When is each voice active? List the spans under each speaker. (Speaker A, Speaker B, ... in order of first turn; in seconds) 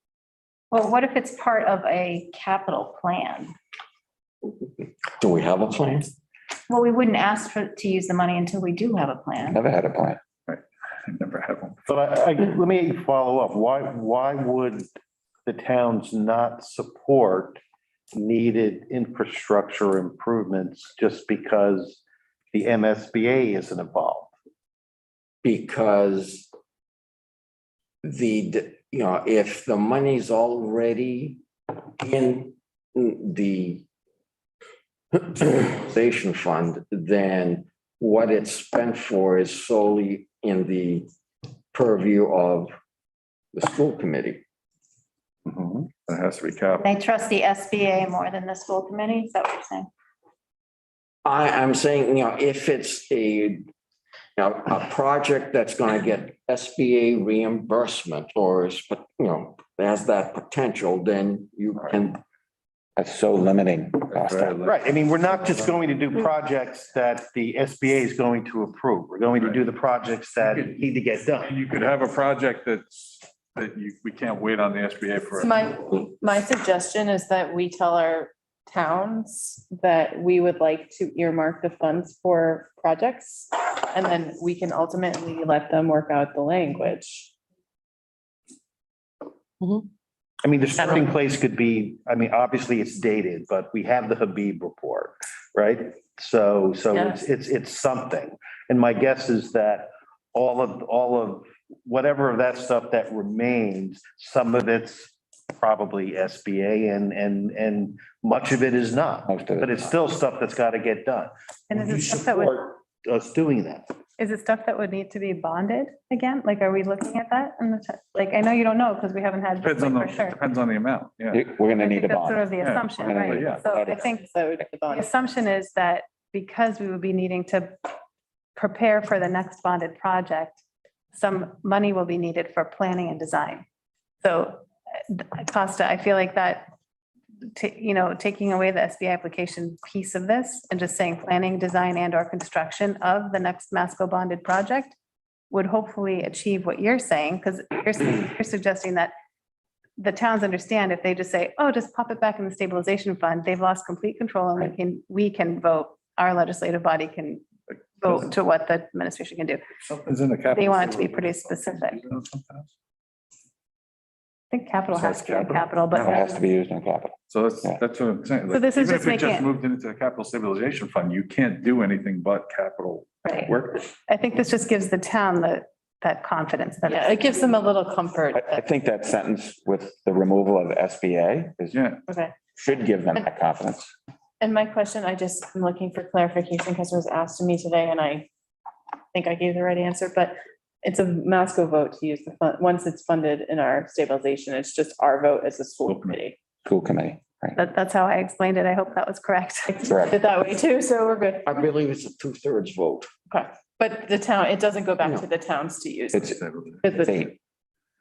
Speaker A: 0.7-3.5, 6.7-9.6, 46.8-49.9
Speaker B: 5.2-6.1, 25.4-26.5, 28.0-31.4, 32.0-33.8, 35.1-41.1, 41.7-42.7, 43.5-44.4, 51.2-53.7, 54.4-62.2, 201.4-203.1, 205.0-205.3
Speaker C: 9.5-10.2, 63.0-64.6, 109.3-109.7, 121.3-122.5, 123.0-124.0, 165.9-167.8, 178.3-181.8, 182.6-183.9, 196.6-197.6, 199.9-200.2, 207.0-207.3
Speaker D: 10.5-11.8, 45.5-46.9, 64.1-64.8, 70.4-70.8, 71.4-75.5, 119.6-121.4, 122.6-123.7, 158.0-158.3, 159.8-162.7, 164.9-166.2, 167.3-173.9, 181.7-182.0, 195.8-196.2, 206.3-206.8
Speaker E: 11.9-14.9, 15.4-17.6, 18.1-22.0, 22.5-24.3, 64.6-71.5, 90.4-113.9
Speaker F: 75.4-87.3, 96.9-97.2, 123.9-125.1, 176.8-178.7, 182.1-182.3, 184.4-188.3, 189.1-196.4, 199.7-201.5, 203.3-207.3
Speaker G: 111.7-112.7, 114.2-120.4, 121.8-124.2, 124.9-127.8, 128.5-130.6, 131.1-133.7, 134.2-136.7, 137.4-145.0, 145.5-149.1, 150.0-157.4, 158.0-159.6, 160.5-162.1, 164.5-166.4, 168.5-169.5, 173.2-177.5, 197.6-199.8